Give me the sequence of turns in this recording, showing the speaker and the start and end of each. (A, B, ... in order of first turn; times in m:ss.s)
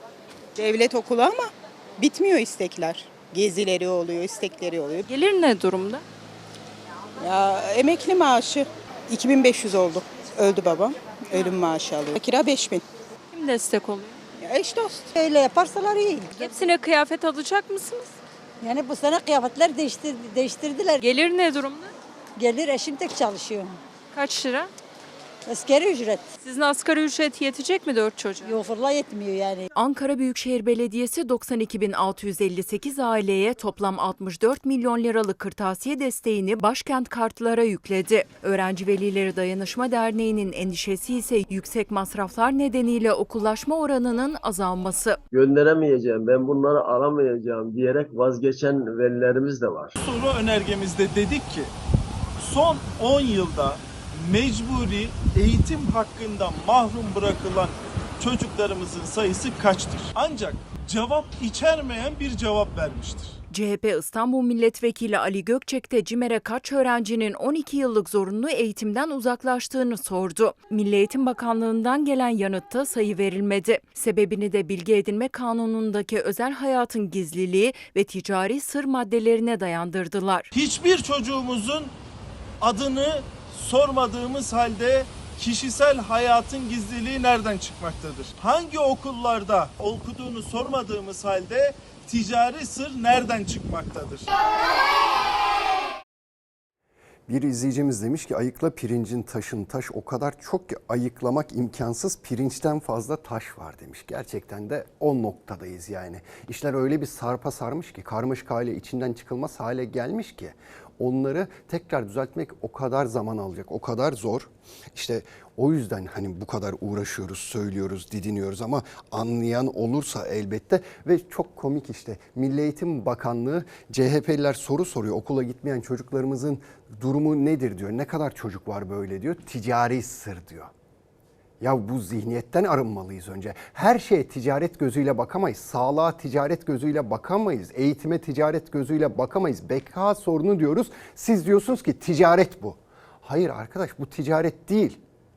0:00.6-0:05.0 A
0:05.1-0:06.0 B
0:07.2-0:12.8 A
0:13.3-0:14.2 B
0:14.4-0:15.1 A
0:15.1-0:16.7 C
0:16.4-0:18.1 B
0:18.6-0:21.0 C
0:21.0-0:21.9 B
0:22.4-0:23.8 C
0:24.1-0:24.7 B
0:25.5-0:26.3 C
0:26.4-0:28.5 B
0:28.4-0:29.7 C
0:29.8-0:45.2 D
0:45.3-0:49.9 E
0:50.0-0:51.7 F
0:52.4-1:03.4 F
1:03.5-1:20.5 D
1:20.5-1:21.9 F
1:22.6-1:34.2 F
1:37.3-2:10.7 G
2:11.6-2:25.0 G